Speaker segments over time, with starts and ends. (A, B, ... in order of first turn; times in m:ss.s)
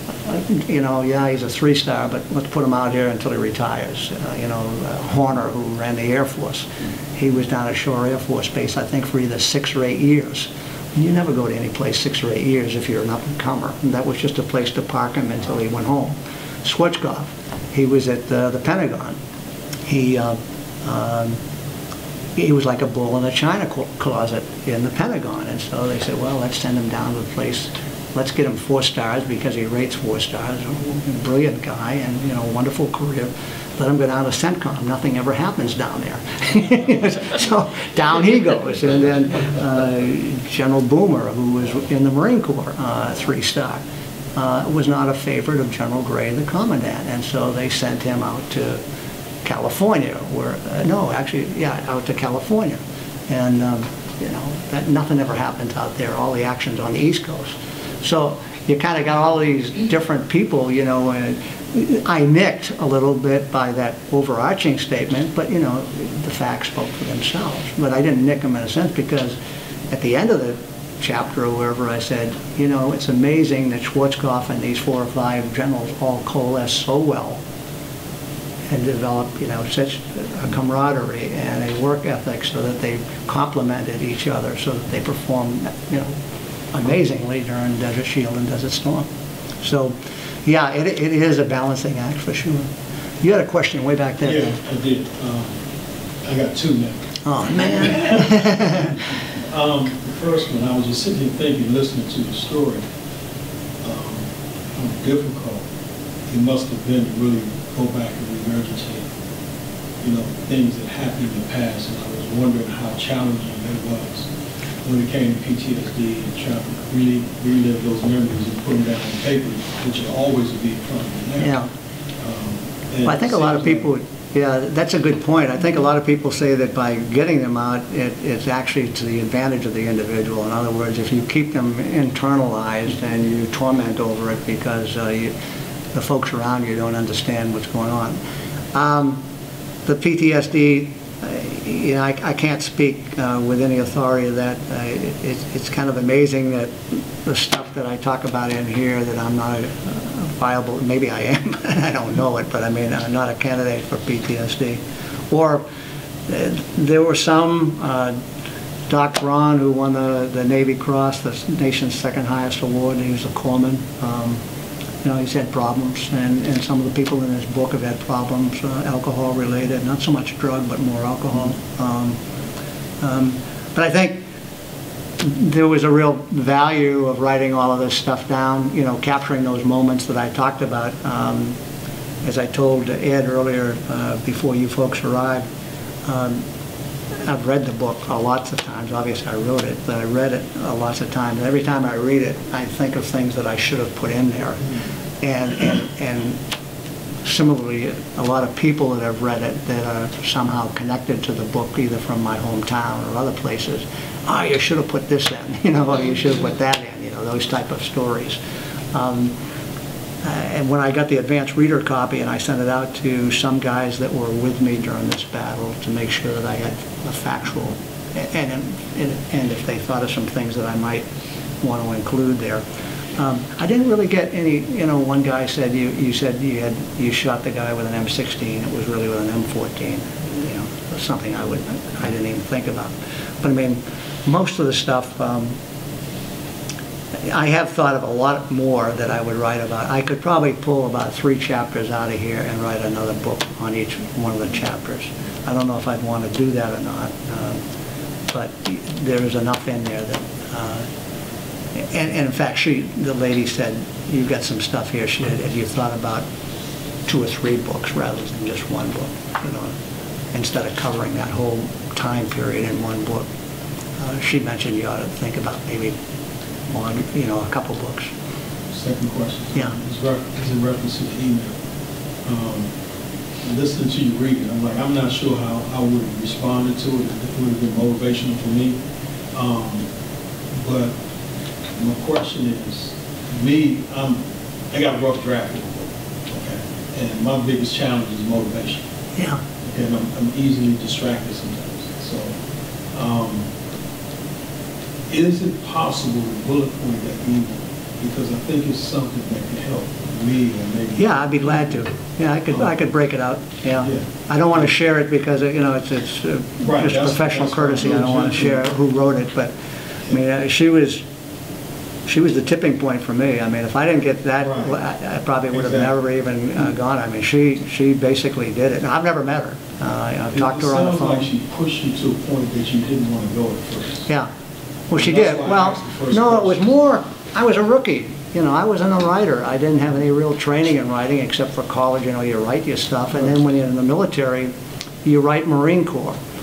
0:00.2-0:19.2 A
0:19.8-0:21.4 A
0:22.4-0:43.8 A
0:44.4-0:48.8 A
0:49.4-1:09.4 A
1:09.9-1:17.4 A
1:18.7-1:26.2 A
1:26.7-1:29.1 A
1:29.6-1:34.6 A
1:34.2-1:35.6 B
1:36.2-1:42.9 B
1:37.2-1:39.0 A
1:43.8-1:45.6 B
1:46.3-1:49.1 B
1:50.0-1:54.3 B
1:54.8-2:01.6 B
2:01.4-2:01.7 A
2:02.2-2:03.8 B
2:03.0-2:15.4 A
2:15.9-2:18.2 A
2:18.7-2:19.2 A
2:19.8-2:35.6 A
2:36.3-2:38.2 A
2:38.9-2:44.4 A
2:45.0-2:52.2 A
2:53.0-2:54.2 A
2:55.2-3:01.6 A
3:02.2-3:05.5 A
3:06.0-3:06.4 A
3:07.1-3:16.4 A
3:17.2-3:28.4 A
3:28.9-3:29.4 A
3:30.2-3:41.1 A
3:41.6-3:55.6 A
3:57.2-4:07.6 A
4:08.3-4:10.9 A
4:11.8-4:16.3 A
4:17.1-4:19.8 A
4:20.3-4:23.3 A
4:24.0-4:26.0 A
4:26.7-4:28.1 A
4:28.7-4:31.6 B
4:32.2-4:32.7 B
4:33.4-4:38.8 B
4:39.3-4:39.9 B
4:40.6-4:41.0 B
4:41.8-4:48.8 B
4:49.2-4:49.4 A
4:49.6-4:52.4 B
4:52.9-4:53.5 B
4:55.1-5:01.1 B
5:01.0-5:09.6 A
5:03.8-5:04.7 B
5:06.6-5:08.7 B
5:10.1-5:11.0 A
5:12.1-5:21.3 A
5:14.4-5:14.8 B
5:15.5-5:15.9 B
5:20.3-5:24.1 B
5:24.9-5:36.2 A
5:24.9-5:26.6 B